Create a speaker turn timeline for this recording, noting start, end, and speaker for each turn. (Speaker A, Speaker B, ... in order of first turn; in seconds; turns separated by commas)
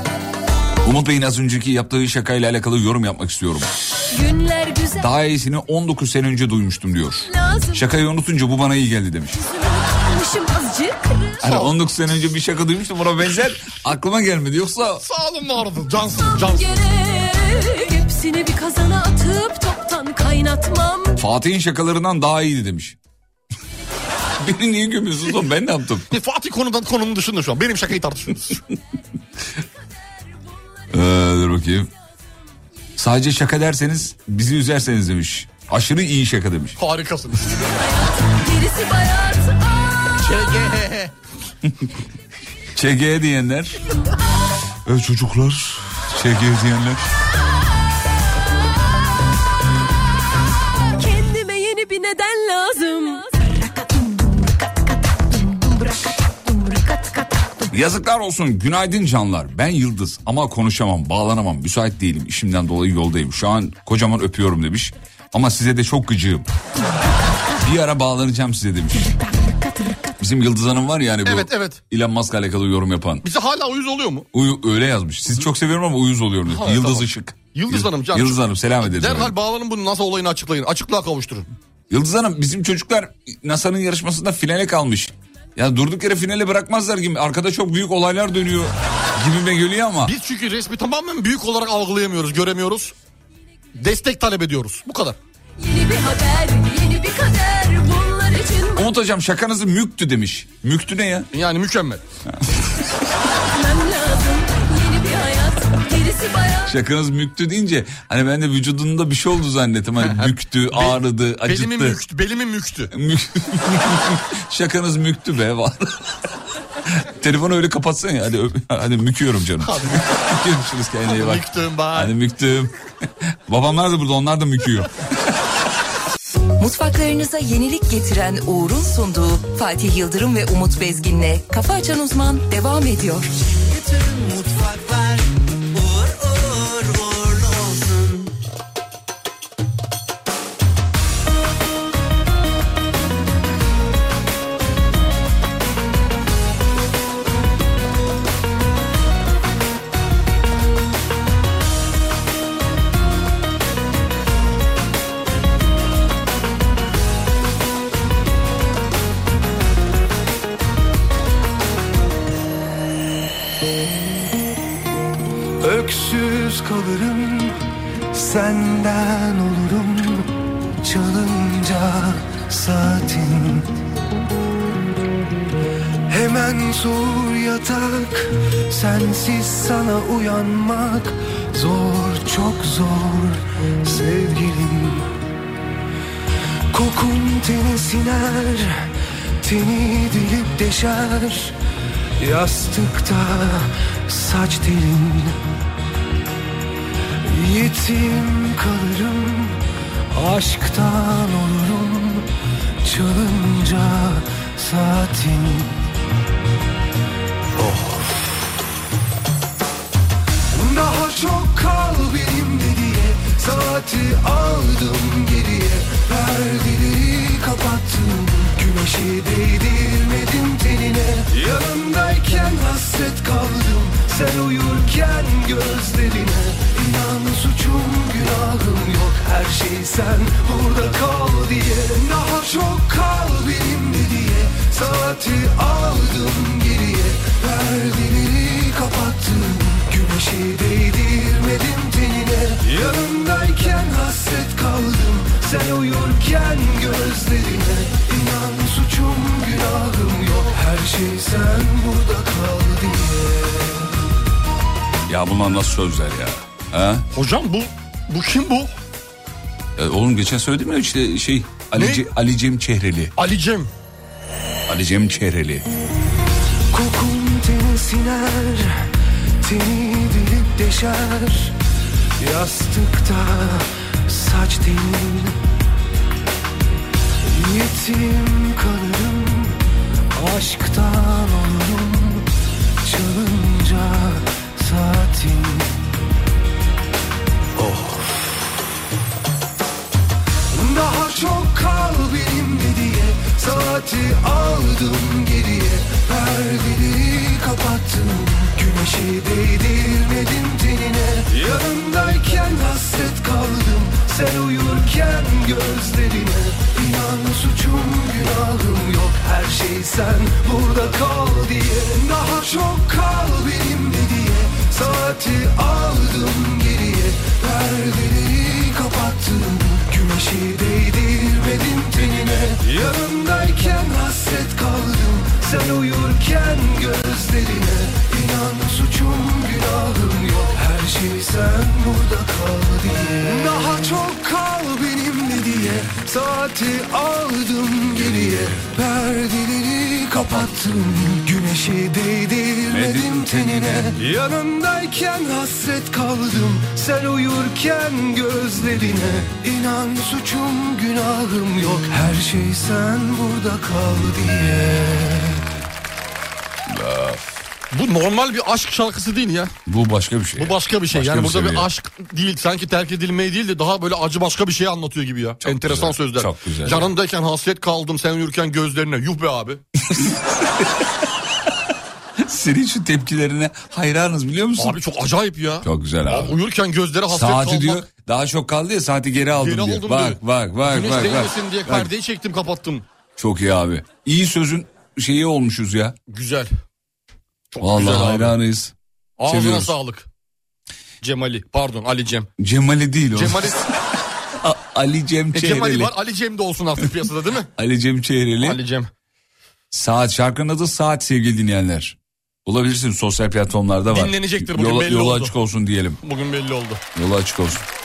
Speaker A: 0.8-3.7, Speaker B: 4.1-5.1, Speaker A: 5.0-9.4, Speaker B: 7.2-7.9, Speaker B: 9.3-11.7, Speaker A: 11.4-15.0, Speaker C: 15.0-16.9, Speaker B: 16.3-21.2, Speaker A: 21.2-22.9, Speaker A: 24.4-26.1, Speaker C: 26.1-28.6, Speaker A: 30.9-31.9, Speaker A: 33.0-36.8, Speaker C: 36.8-37.7, Speaker B: 37.5-40.3, Speaker C: 40.2-41.1, Speaker A: 42.7-43.8, Speaker A: 44.9-47.0, Speaker B: 51.0-53.3, Speaker A: 57.7-66.5, Speaker A: 67.6-69.1, Speaker A: 70.2-73.2, Speaker C: 71.2-71.8, Speaker C: 73.2-74.3, Speaker A: 74.3-79.3, Speaker C: 76.5-81.5, Speaker A: 81.9-90.1, Speaker C: 90.0-92.9, Speaker C: 93.8-95.2, Speaker B: 95.6-98.9, Speaker A: 98.8-101.3, Speaker C: 101.3-102.0, Speaker B: 103.5-106.8, Speaker A: 106.7-112.0, Speaker C: 110.0-112.9, Speaker A: 112.9-116.0, Speaker A: 117.0-122.7, Speaker C: 119.6-120.0, Speaker C: 121.1-122.1, Speaker A: 123.5-124.9, Speaker D: 126.6-133.3, Speaker E: 133.7-138.3, Speaker F: 165.6-167.6, Speaker F: 168.1-173.7, Speaker F: 176.1-185.1, Speaker F: 186.7-188.9, Speaker F: 189.4-191.5, Speaker F: 192.2-195.4, Speaker F: 197.3-199.6, Speaker F: 200.1-202.2, Speaker F: 202.8-205.8, Speaker F: 207.6-208.1, Speaker F: 210.5-253.9, Speaker A: 255.1-257.0, Speaker C: 257.1-258.7, Speaker A: 259.8-263.1, Speaker C: 261.7-262.1, Speaker C: 263.2-263.7, Speaker A: 264.7-265.6, Speaker F: 266.7-268.9, Speaker F: 269.4-271.5, Speaker F: 272.2-275.4, Speaker F: 277.3-279.6, Speaker F: 280.1-282.2, Speaker F: 282.8-285.7, Speaker F: 287.6-288.1, Speaker F: 290.5-355.4, Speaker A: 338.0-338.6, Speaker A: 342.7-343.9, Speaker A: 356.7-357.4, Speaker C: 357.7-359.5, Speaker A: 359.7-361.7, Speaker C: 360.4-369.6, Speaker A: 365.4-366.9, Speaker A: 372.2-374.8, Speaker C: 374.6-377.8, Speaker A: 375.6-376.4, Speaker A: 377.1-381.9, Speaker C: 379.4-382.8, Speaker A: 383.2-385.9, Speaker C: 386.1-386.5, Speaker C: 387.5-388.4, Speaker A: 387.6-388.7, Speaker C: 389.2-390.1, Speaker A: 389.2-389.7, Speaker C: 391.0-392.3, Speaker A: 392.4-393.5, Speaker C: 393.1-393.6, Speaker A: 394.4-395.9, Speaker C: 395.3-397.5, Speaker A: 397.6-398.6, Speaker C: 398.4-398.9, Speaker A: 399.7-406.0, Speaker C: 403.9-405.3, Speaker C: 406.0-406.8, Speaker A: 406.9-407.6